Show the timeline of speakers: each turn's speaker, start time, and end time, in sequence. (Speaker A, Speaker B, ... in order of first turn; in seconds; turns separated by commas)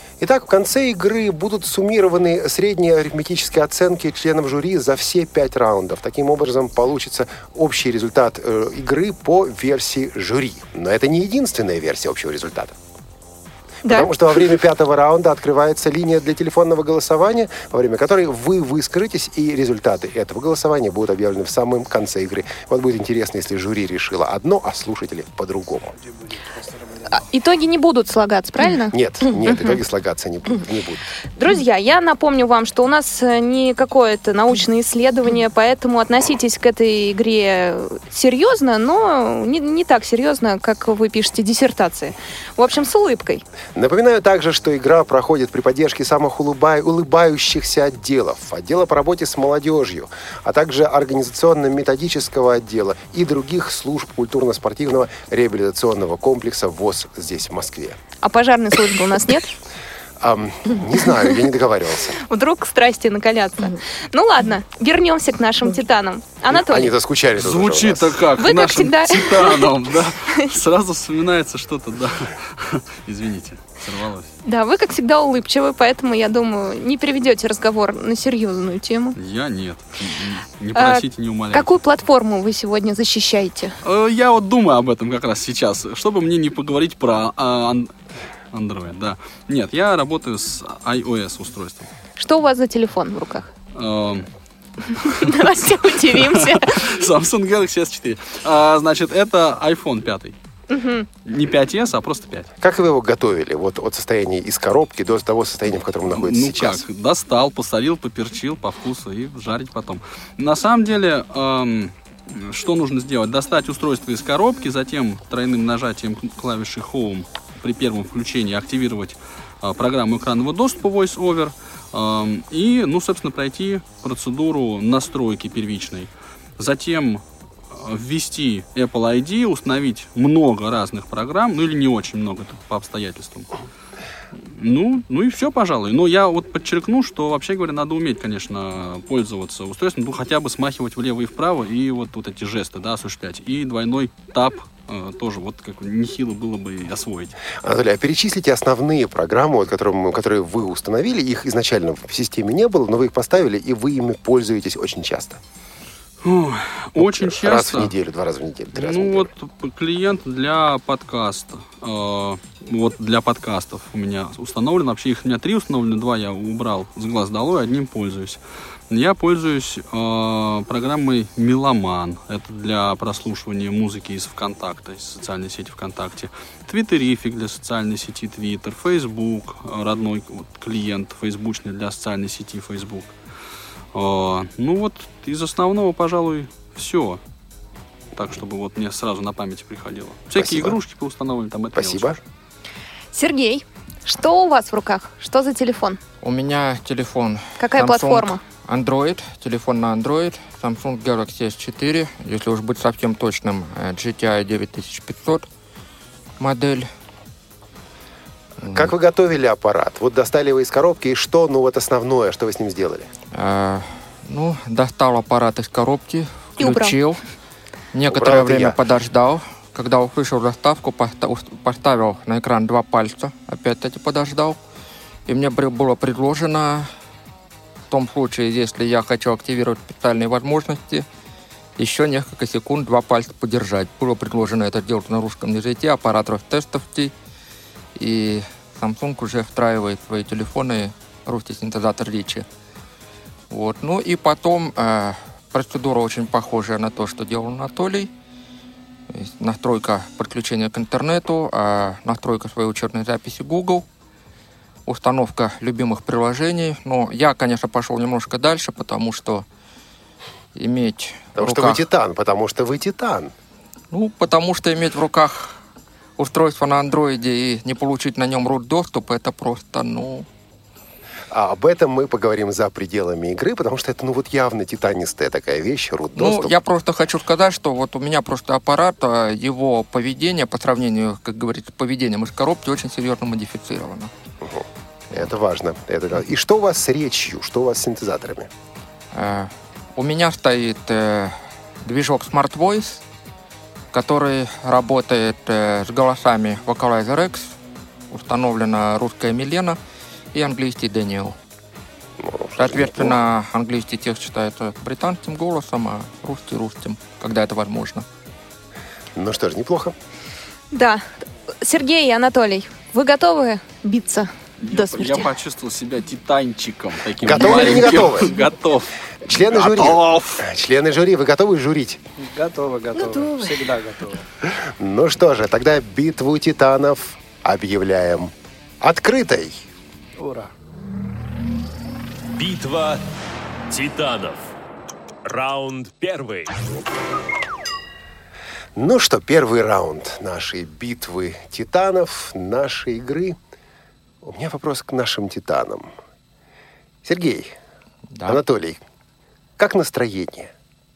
Speaker A: 0.2-12.8, Speaker B: 13.8-14.1, Speaker A: 13.8-25.9, Speaker C: 26.6-27.0, Speaker B: 27.1-28.9, Speaker A: 28.9-31.1, Speaker B: 31.4-43.4, Speaker A: 43.8-58.0, Speaker B: 58.2-59.5, Speaker A: 60.2-62.2, Speaker B: 62.3-66.9, Speaker A: 66.5-68.2, Speaker D: 67.4-74.3, Speaker B: 68.4-69.7, Speaker B: 74.4-79.2, Speaker D: 79.2-81.8, Speaker B: 80.7-83.8, Speaker D: 83.8-87.9, Speaker D: 88.5-91.9, Speaker B: 92.2-93.5, Speaker D: 93.7-94.3, Speaker D: 94.9-100.3, Speaker B: 95.1-96.8, Speaker B: 100.7-101.1, Speaker D: 101.2-102.5, Speaker A: 102.6-106.8, Speaker D: 106.1-133.5, Speaker D: 134.5-147.4, Speaker A: 147.6-155.4, Speaker D: 156.2-157.9, Speaker A: 157.0-159.3, Speaker D: 158.7-183.1, Speaker D: 183.9-187.2, Speaker D: 188.2-192.1, Speaker A: 190.3-190.8, Speaker A: 191.7-192.2, Speaker B: 193.1-196.0, Speaker E: 196.2-205.4, Speaker B: 197.6-198.4, Speaker E: 206.4-206.9, Speaker E: 208.6-208.9, Speaker A: 208.7-213.1, Speaker E: 213.3-217.2, Speaker B: 216.6-217.0, Speaker E: 217.9-224.6, Speaker A: 218.1-218.8, Speaker E: 225.2-226.9, Speaker E: 227.9-231.1, Speaker E: 231.8-237.1, Speaker E: 237.9-242.4, Speaker E: 243.5-248.1, Speaker E: 249.1-253.8, Speaker E: 254.8-259.4, Speaker E: 260.5-261.8, Speaker A: 261.4-263.3, Speaker E: 263.9-265.6, Speaker E: 266.2-270.3, Speaker A: 271.3-276.6, Speaker E: 276.1-284.1, Speaker A: 284.4-288.5, Speaker E: 289.1-293.0, Speaker E: 293.9-297.6, Speaker E: 298.1-299.8, Speaker E: 300.3-301.3, Speaker A: 302.2-303.2, Speaker E: 302.6-308.0, Speaker A: 309.1-309.9, Speaker B: 310.7-315.3, Speaker D: 314.6-320.4, Speaker A: 317.2-318.4, Speaker A: 319.2-322.0, Speaker C: 322.2-324.2, Speaker A: 324.5-329.6, Speaker C: 330.2-330.5, Speaker F: 332.3-333.0, Speaker F: 333.7-334.5, Speaker F: 335.2-336.6, Speaker A: 338.8-343.4, Speaker A: 344.2-345.9, Speaker A: 347.0-347.5, Speaker E: 348.1-348.4, Speaker A: 348.2-348.8, Speaker A: 349.6-350.5